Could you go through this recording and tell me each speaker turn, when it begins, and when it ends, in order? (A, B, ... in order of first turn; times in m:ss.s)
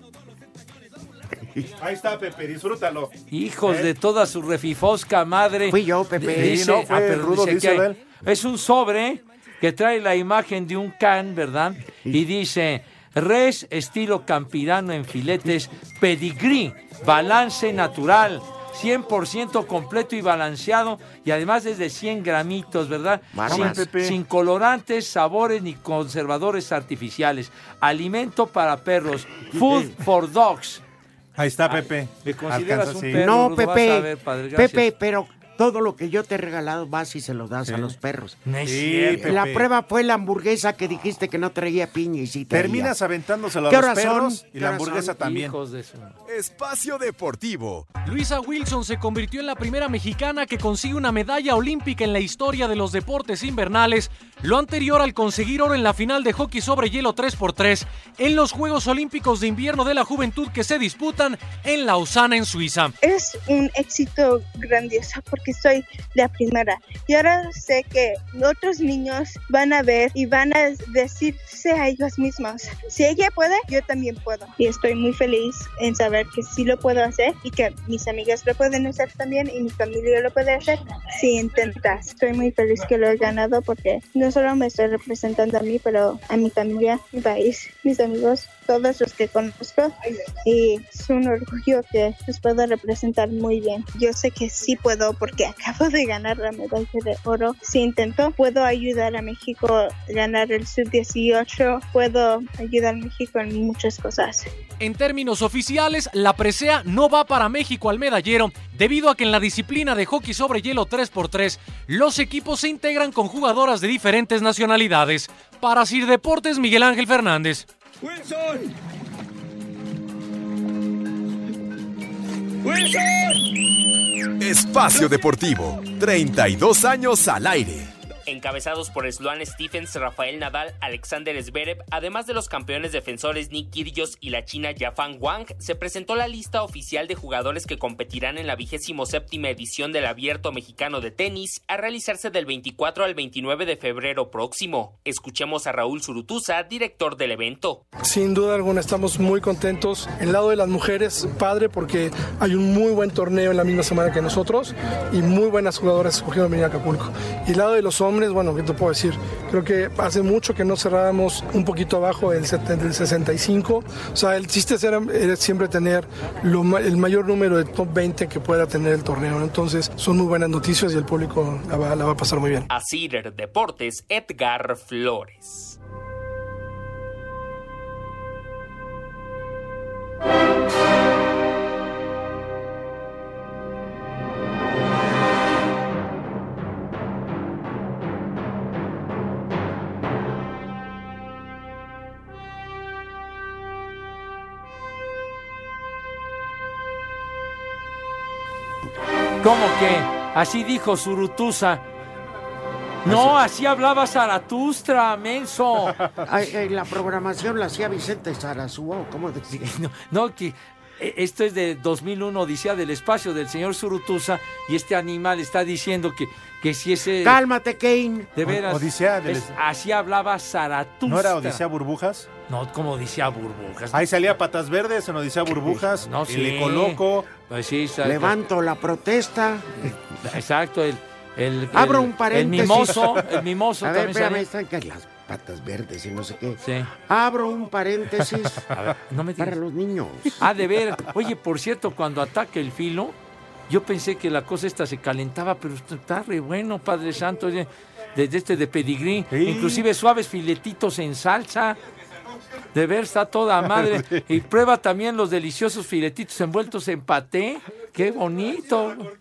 0:01.4-0:01.7 A
0:01.8-0:03.1 B
0:03.3-0:30.8 C
0:03.6-0:03.9 B
0:05.7-0:06.6 A
0:06.3-0:08.0 B
0:23.3-0:23.9 A
0:23.5-0:24.2 B
0:29.5-0:29.9 A
0:31.4-0:33.2 B
0:31.7-0:34.9 C
0:33.1-0:38.4 A
0:37.7-0:37.9 B
0:38.5-0:39.4 C
0:38.7-0:39.7 B
0:39.1-0:43.0 A
0:42.5-0:45.6 B
0:43.7-0:45.1 A
0:45.0-0:46.2 C
0:46.3-0:47.9 D
0:48.0-1:03.0 E
1:03.0-1:29.9 F
1:30.4-1:44.5 F
1:44.8-1:57.7 E
2:04.4-2:07.9 D
2:08.3-2:27.8 G
2:28.0-2:52.7 H
2:52.7-2:55.8 G
3:19.4-3:21.8 C
3:23.0-3:26.0 C
3:26.2-3:29.8 A
3:29.6-3:37.4 C
3:37.2-3:38.3 A
3:38.4-3:41.6 C
3:38.4-3:39.5 B
3:41.1-3:42.3 B
3:42.5-3:44.1 C
3:43.9-3:47.3 B
3:45.9-3:48.4 C
3:48.0-3:49.9 A
3:49.8-3:54.5 C
3:51.7-3:53.2 A
3:53.8-3:58.6 A
3:56.6-3:56.9 C
3:58.7-3:59.6 C
3:59.4-4:00.4 A
4:00.4-4:03.2 C
4:03.7-4:11.8 C
4:09.3-4:09.9 B
4:12.7-4:19.1 C
4:13.8-4:14.2 B